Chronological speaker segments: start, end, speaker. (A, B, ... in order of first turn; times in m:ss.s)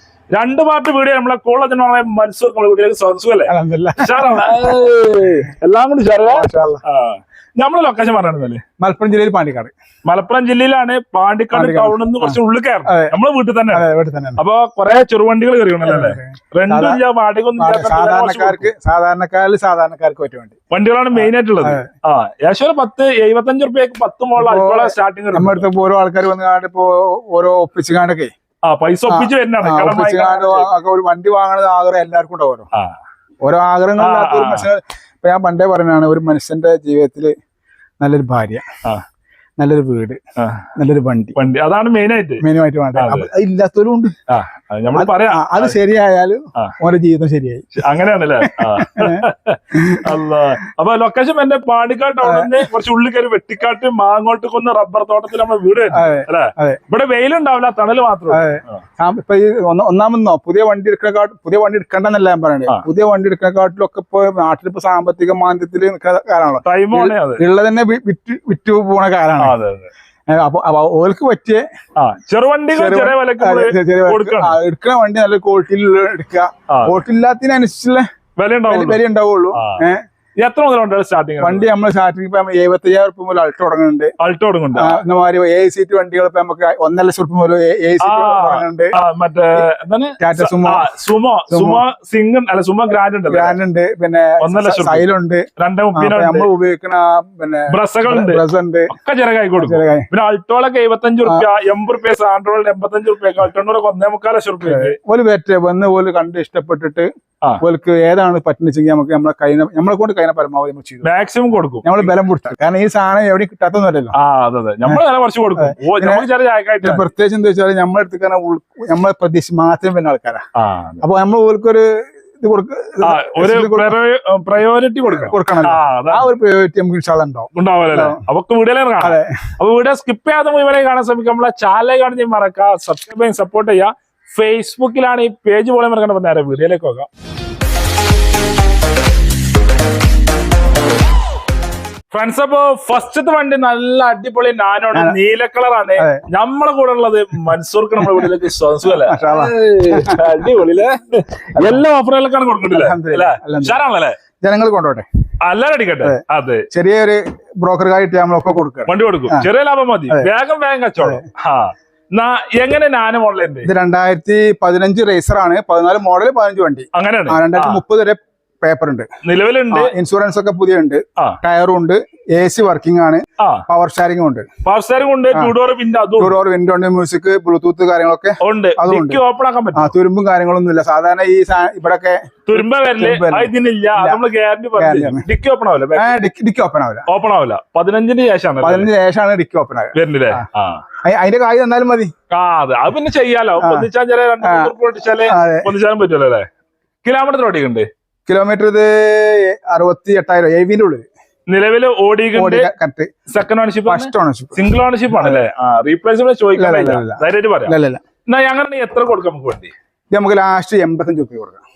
0:00.3-0:08.6 A
0:03.5-0:05.5 B
0:06.2-0:06.8 B
0:08.8-0:09.7 B
0:10.1-0:13.8 A
0:11.5-0:13.2 B
0:13.7-0:14.4 B
0:14.4-0:18.6 A
0:15.8-0:17.0 B
0:17.6-0:20.6 B
0:20.7-0:25.6 A
0:21.1-0:21.9 B
0:24.4-0:28.3 B
0:28.6-0:30.7 A
0:29.1-0:32.7 B
0:33.4-0:37.3 B
0:34.0-0:34.7 A
0:38.0-0:38.6 B
0:39.6-0:40.2 B
0:40.4-0:40.7 A
0:40.8-0:41.4 B
0:41.4-0:42.4 A
0:42.4-0:44.1 B
0:42.9-0:43.3 A
0:44.3-0:45.7 A
0:44.9-0:47.7 B
0:47.7-0:58.8 A
0:48.4-0:50.2 B
0:52.2-0:52.6 B
0:55.9-0:56.8 B
0:58.3-1:09.6 B
1:06.6-1:07.4 A
1:09.4-1:09.9 A
1:10.3-1:11.6 B
1:12.0-1:14.6 A
1:12.7-1:18.0 B
1:16.7-1:17.0 A
1:18.4-1:19.0 A
1:18.7-1:20.0 B
1:19.5-1:19.8 A
1:20.4-1:21.7 A
1:21.4-1:24.1 B
1:24.2-1:25.0 A
1:24.7-1:29.0 B
1:28.0-1:33.6 A
1:30.2-1:30.9 B
1:31.5-1:31.8 B
1:33.3-1:38.9 B
1:34.4-1:35.1 A
1:35.6-1:36.5 A
1:37.7-1:45.0 A
1:39.6-1:40.1 B
1:44.6-1:47.1 B
1:47.6-1:51.1 B
1:51.0-1:52.1 A
1:51.8-1:54.1 B
1:54.1-1:57.1 A
1:55.5-1:56.3 B
1:56.8-2:00.4 B
2:00.6-2:01.0 A
2:01.0-2:01.9 B
2:02.4-2:04.0 B
2:03.0-2:06.3 A
2:05.0-2:08.2 B
2:07.5-2:17.1 A
2:09.0-2:09.4 B
2:22.1-2:34.2 A
2:26.0-2:26.2 B
2:28.0-2:28.3 B
2:29.0-2:30.4 B
2:31.6-2:31.8 B
2:32.7-2:33.8 B
2:34.4-2:35.0 B
2:35.4-2:36.6 A
2:36.7-2:39.5 B
2:38.9-2:43.7 A
2:41.0-2:41.2 B
2:43.6-2:49.1 B
2:46.9-2:47.8 A
2:49.2-2:49.9 A
2:49.7-2:54.4 B
2:53.4-2:53.6 A
2:54.6-2:56.3 A
2:56.2-2:59.2 B
2:58.4-2:59.9 A
2:59.7-3:04.2 B
3:02.5-3:06.2 A
3:04.8-3:05.2 B
3:05.9-3:07.1 B
3:07.1-3:08.9 A
3:08.6-3:10.4 B
3:09.9-3:10.8 A
3:11.0-3:12.1 B
3:12.3-3:16.5 A
3:13.6-3:13.9 B
3:14.4-3:14.7 B
3:15.2-3:15.7 B
3:17.0-3:17.9 A
3:18.3-3:21.1 B
3:21.5-3:22.7 A
3:22.3-3:23.1 B
3:23.3-3:27.7 A
3:23.9-3:25.4 B
3:26.5-3:28.0 B
3:28.3-3:29.7 A
3:30.1-3:31.6 B